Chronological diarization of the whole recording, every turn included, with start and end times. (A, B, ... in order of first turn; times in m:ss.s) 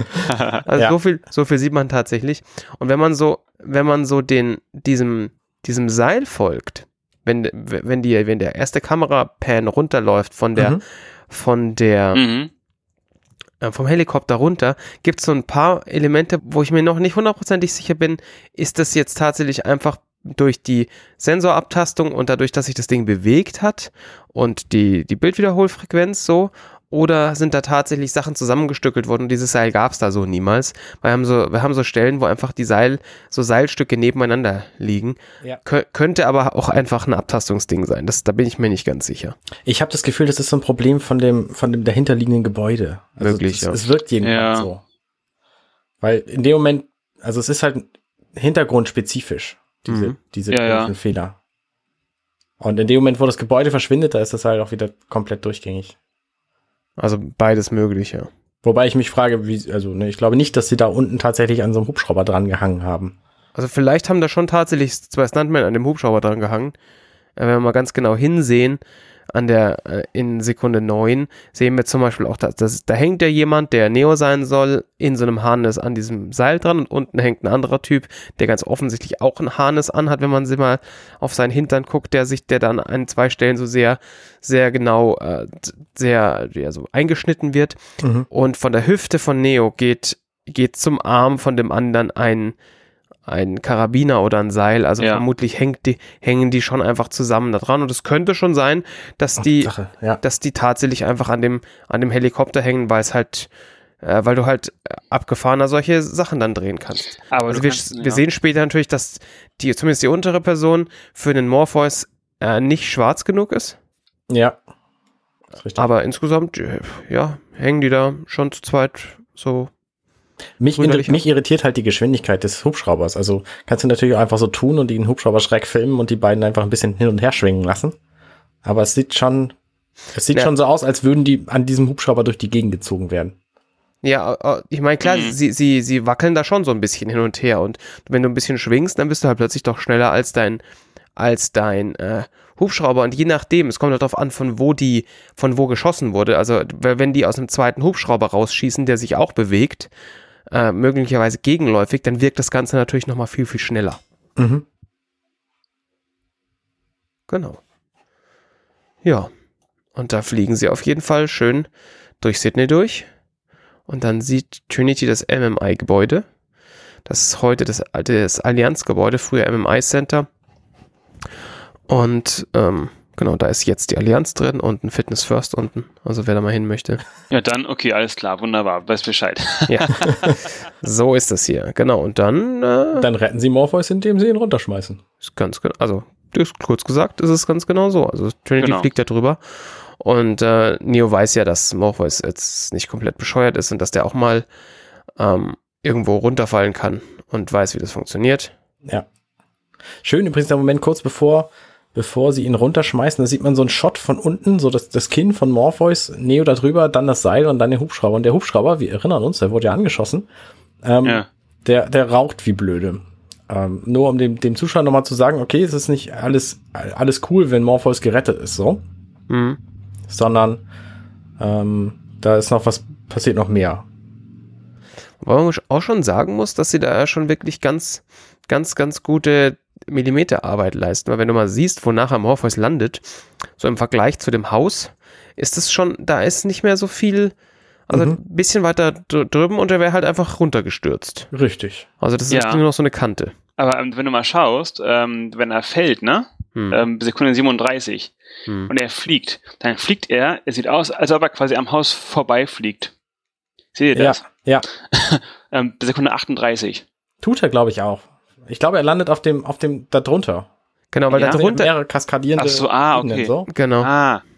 0:00.3-0:00.6 A
0:00.6-0:12.2 B
0:10.6-0:10.8 C
0:12.1-0:12.5 A
0:13.6-0:39.4 B
0:39.6-0:44.8 C
0:43.2-0:43.8 B
0:44.2-0:44.7 A
0:46.0-0:51.4 C
0:49.9-0:50.2 B
0:50.5-0:50.9 A
0:52.6-0:56.0 C
0:57.0-0:58.3 B
0:58.6-1:03.2 C
1:03.5-1:06.7 B
1:07.4-1:08.8 B
1:09.3-1:27.8 B
1:28.0-1:28.3 C
1:28.3-1:32.5 B
1:33.2-1:43.5 B
1:39.4-1:40.2 C
1:44.0-1:53.8 B
1:47.3-1:48.2 A
1:54.3-1:54.6 C
1:55.6-1:55.8 C
1:55.8-1:59.7 B
2:00.6-2:08.0 C
2:00.8-2:01.2 B
2:08.6-2:09.5 C
2:10.1-2:13.4 C
2:14.0-2:20.6 B
2:15.0-2:15.3 A
2:21.2-2:29.9 B
2:30.5-2:34.0 B
2:34.4-2:34.6 C
2:37.3-2:37.6 B
2:39.0-2:39.3 B
2:39.9-2:41.7 B
2:42.2-2:43.0 B
2:43.9-2:46.2 B
2:47.0-2:50.3 B
2:51.9-2:57.0 B
2:57.3-3:00.3 A
2:59.7-3:00.3 B
3:00.8-3:03.1 B
3:02.9-3:05.0 C
3:05.2-3:14.4 B
3:08.6-3:08.9 A
3:15.2-3:18.5 B
3:20.0-3:30.3 C
3:30.8-3:38.8 C
3:39.3-3:39.6 B
3:40.1-3:40.6 C
3:41.4-3:43.9 C
3:45.2-3:57.3 B
3:57.9-4:01.3 B
3:57.9-3:58.2 C
4:01.3-4:01.9 C
4:02.0-4:03.3 B
4:02.3-4:02.6 A
4:03.6-4:08.1 A
4:06.5-4:06.8 B
4:08.7-4:12.9 A
4:13.7-4:14.3 A
4:13.9-4:14.6 C
4:14.9-4:16.8 A
4:17.2-4:20.5 C
4:20.9-4:21.7 B
4:21.1-4:21.4 A
4:21.2-4:23.5 C
4:22.4-4:24.2 A
4:23.5-4:23.9 B